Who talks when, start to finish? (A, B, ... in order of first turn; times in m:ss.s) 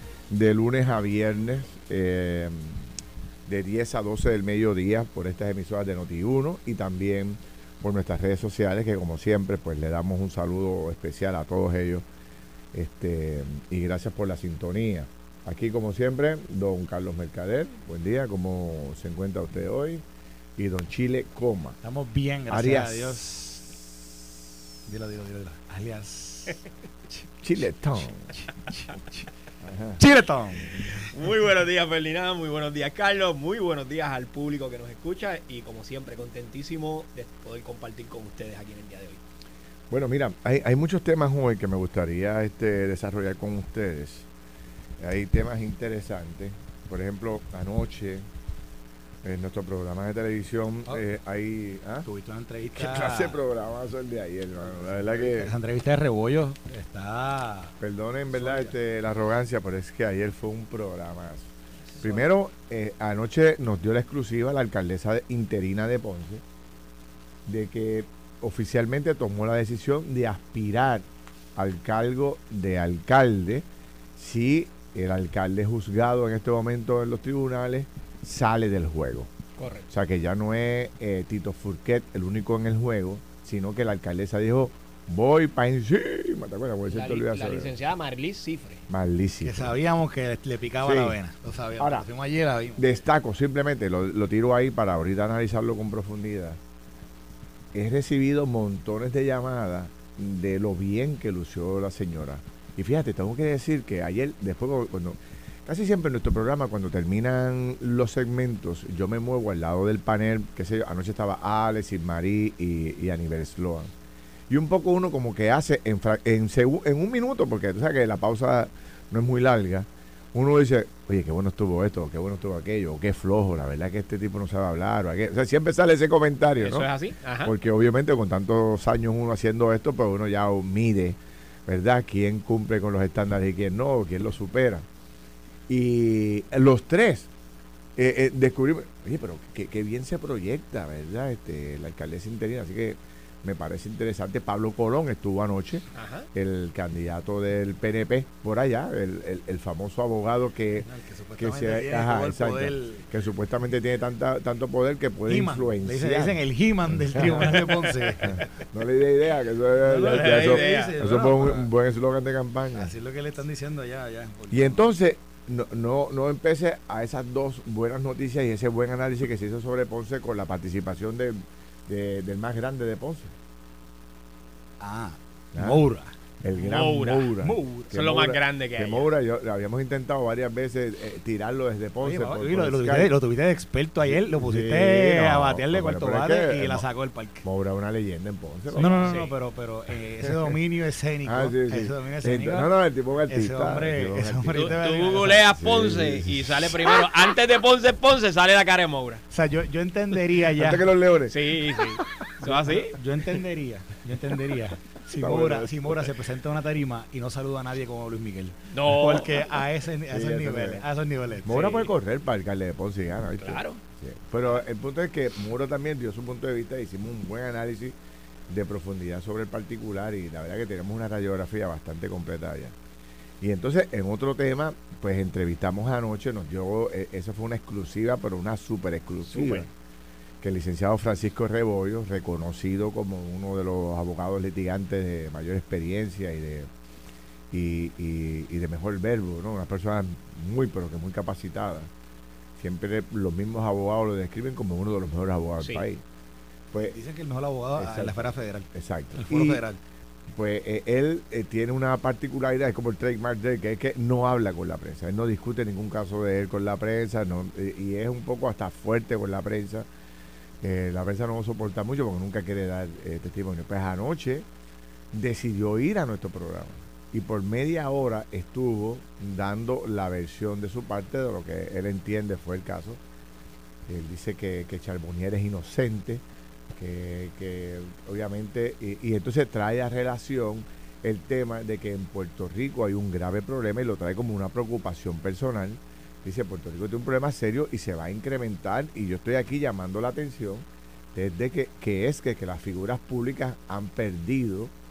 0:00.3-0:02.8 A
0:03.5-0:12.0 A
0:12.7-0:20.0 A
0:20.6-0:21.8 A
0:21.8-0:23.7 B
0:22.5-0:23.2 A
0:24.8-0:26.6 B
0:27.4-0:28.3 A
0:28.7-0:29.2 B
0:29.6-0:30.0 A
0:30.0-0:31.1 B
0:31.1-0:39.2 C
0:39.9-0:44.2 A
0:45.0-0:48.2 A
0:49.2-0:52.0 A
0:52.0-0:53.4 B
0:52.7-0:55.5 A
0:54.8-0:57.7 B
0:57.8-1:01.5 A
0:58.3-0:58.7 B
1:02.0-1:06.4 A
1:07.4-1:11.0 A
1:11.6-1:13.6 A
1:14.2-1:19.3 A
1:19.6-1:19.9 C
1:19.9-1:27.7 A
1:26.9-1:28.8 C
1:28.9-1:29.7 A
1:29.4-1:32.8 B
1:30.8-1:31.2 A
1:31.8-1:32.0 A
1:32.8-1:36.6 A
1:37.7-1:53.9 A
1:54.5-2:06.9 A
2:06.6-2:07.5 C
2:07.4-2:14.8 A
2:15.7-2:17.3 A
2:18.0-2:37.6 A
2:25.9-2:26.3 C
2:30.8-2:33.1 B
2:35.3-2:38.5 B
2:38.2-2:42.9 A
2:39.8-2:41.7 B
2:40.0-2:40.9 C
2:42.7-2:44.8 B
2:44.5-2:53.3 A
2:54.8-2:56.1 B
2:55.5-2:55.8 A
2:56.4-3:03.1 A
2:56.6-2:57.3 C
2:57.4-2:57.9 B
2:57.9-2:59.1 C
3:02.0-3:07.4 B
3:04.0-3:06.8 A
3:07.4-3:09.2 A
3:08.7-3:12.7 B
3:08.8-3:09.3 C
3:11.2-3:16.6 A
3:13.3-3:15.4 B
3:14.5-3:19.2 C
3:19.3-3:20.9 B
3:20.5-3:22.0 A
3:21.3-3:23.0 C
3:22.4-3:31.8 B
3:25.2-3:26.0 A
3:28.7-3:29.6 C
3:30.1-3:30.8 A
3:31.4-3:38.0 A
3:31.5-3:31.9 C
3:33.4-3:33.8 C
3:38.5-3:42.7 A
3:43.4-3:49.7 A
3:49.3-3:49.7 C
3:50.4-3:56.7 A
3:57.5-4:01.9 A
4:02.6-4:06.0 A
4:06.7-4:07.0 A
4:06.8-4:09.8 B
4:07.8-4:09.6 A
4:10.3-4:19.9 A
4:20.6-4:24.4 A
4:25.1-4:33.0 A
4:33.9-4:54.7 A